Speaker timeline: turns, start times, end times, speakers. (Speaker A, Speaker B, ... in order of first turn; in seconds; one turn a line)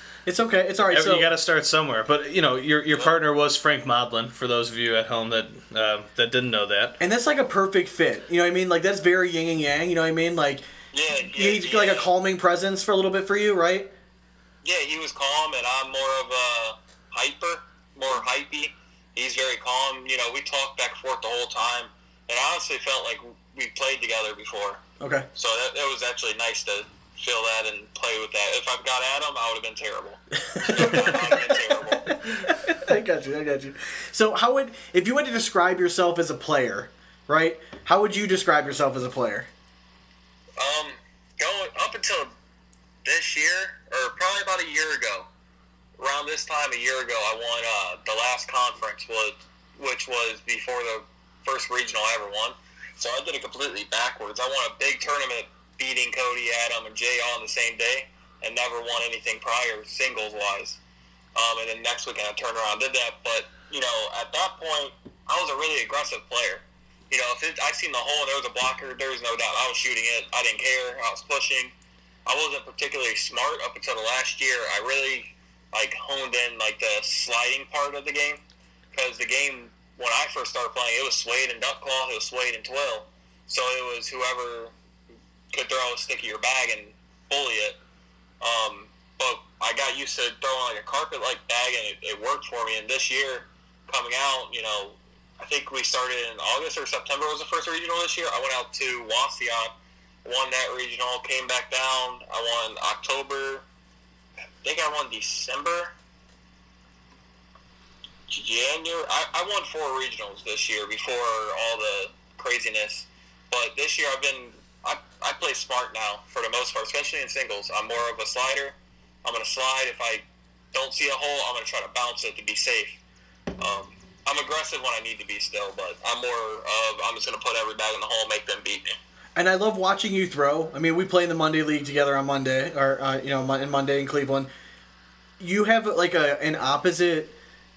Speaker A: 0.3-1.3
Speaker B: 0.8-7.0
Speaker A: 7.0-10.6
Speaker C: 10.9-12.1
Speaker A: 11.3-13.9
Speaker C: 14.6-24.8
Speaker A: 25.0-25.3
Speaker C: 25.3-32.2
Speaker A: 30.4-39.5
Speaker C: 40.6-42.3
Speaker C: 43.0-45.3
Speaker C: 46.0-60.8
Speaker C: 61.4-71.7
Speaker C: 72.3-78.4
Speaker C: 78.9-84.7
Speaker C: 85.5-87.8
Speaker C: 88.4-99.7
Speaker C: 100.2-103.6
Speaker C: 104.6-105.9
Speaker C: 108.3-123.0
Speaker C: 123.6-129.0
Speaker A: 129.4-134.5
Speaker A: 135.4-137.3